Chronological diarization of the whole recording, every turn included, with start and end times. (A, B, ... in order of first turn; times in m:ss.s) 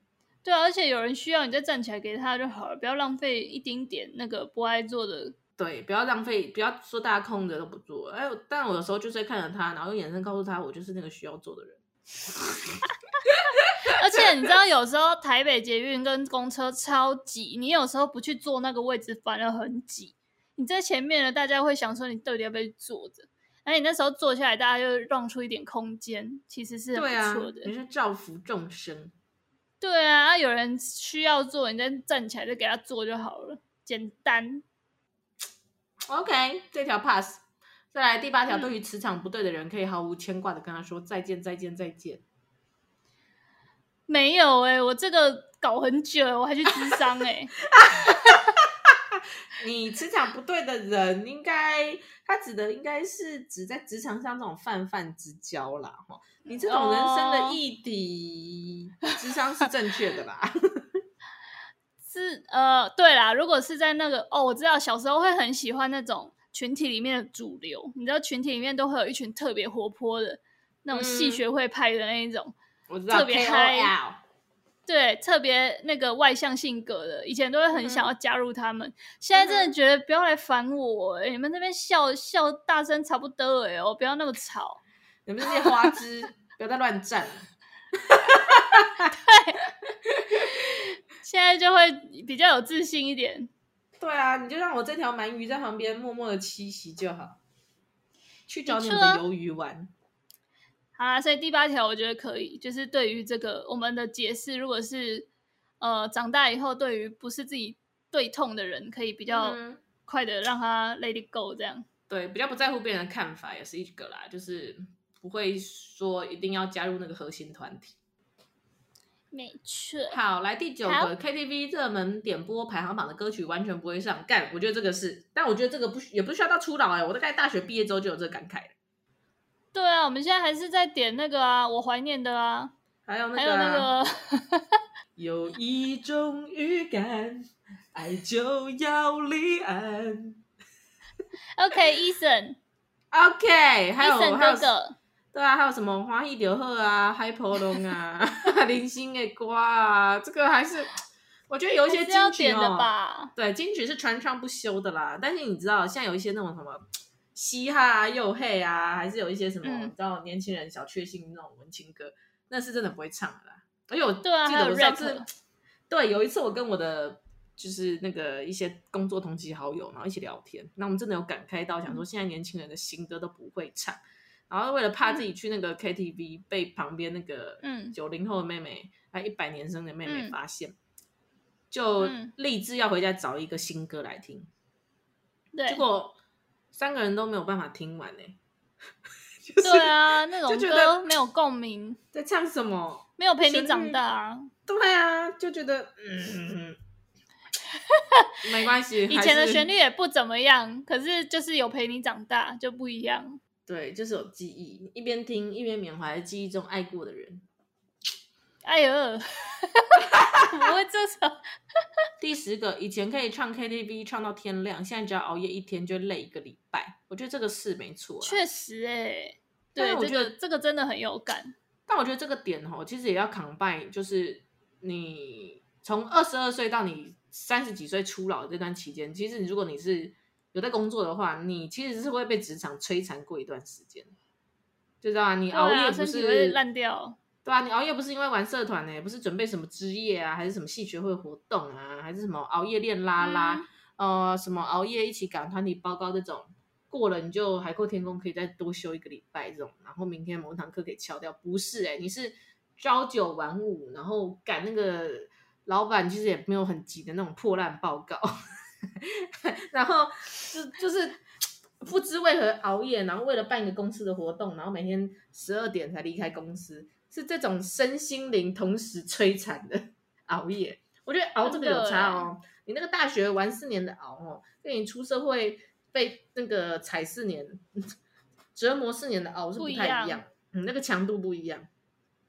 0:00.4-0:05.3 A
0:05.6-0:11.8 B
0:13.3-0:13.7 B
0:13.9-0:27.7 A
0:26.9-0:29.1 B
0:29.8-0:34.6 A
0:36.1-0:37.4 B
0:37.9-0:42.2 B
0:44.1-0:47.5 A
0:47.8-0:48.4 B
0:48.9-1:00.8 B
0:56.5-0:57.6 A
1:02.0-1:12.5 A
1:10.9-1:11.4 B
1:12.9-1:14.2 B
1:13.1-1:13.9 A
1:14.9-1:24.8 A
1:17.8-1:18.1 B
1:19.4-1:19.7 B
1:25.2-1:27.5 B
1:28.0-1:29.1 B
1:29.1-1:29.6 A
1:30.1-1:30.5 B
1:31.2-1:33.5 A
1:34.0-1:37.4 B
1:38.5-1:39.9 B
1:38.7-1:39.2 A
1:41.0-1:45.3 A
1:45.8-1:51.9 A
1:49.3-1:49.8 B
1:52.1-1:58.0 B
1:59.3-2:00.2 A
2:00.1-2:08.7 B
2:00.8-2:01.1 A
2:09.7-2:12.7 A
2:13.0-2:13.9 B
2:13.4-2:14.8 A
2:15.2-2:20.4 B
2:21.6-2:22.6 A
2:23.1-2:24.7 B
2:24.0-2:25.0 A
2:25.3-2:30.9 B
2:31.5-2:36.8 B
2:31.9-2:33.3 A
2:37.3-2:45.2 B
2:39.6-2:39.9 A
2:44.2-2:45.3 A
2:45.9-2:54.0 B
2:54.5-3:00.7 B
2:57.6-2:58.0 A
3:00.0-3:00.4 A
3:01.7-3:04.5 B
3:02.0-3:02.3 A
3:05.5-3:05.8 A
3:05.7-3:06.2 B
3:06.7-3:08.4 B
3:09.5-3:11.0 B
3:09.6-3:12.0 A
3:12.1-3:14.0 B
3:13.2-3:14.5 A
3:14.7-3:16.8 B
3:17.9-3:18.3 A
3:18.4-3:19.7 B
3:19.1-3:23.4 A
3:23.7-3:27.4 B
3:28.6-3:31.8 A
3:32.2-3:38.4 B
3:38.2-3:41.5 A
3:39.8-3:40.3 B
3:41.9-3:54.1 B
3:55.0-3:56.6 B
3:55.5-3:57.2 A
3:57.4-4:18.3 B
4:03.2-4:03.6 A
4:19.0-4:21.2 B
4:21.8-4:37.6 B
4:31.4-4:32.3 A
4:38.5-4:41.7 B
4:39.6-4:40.2 A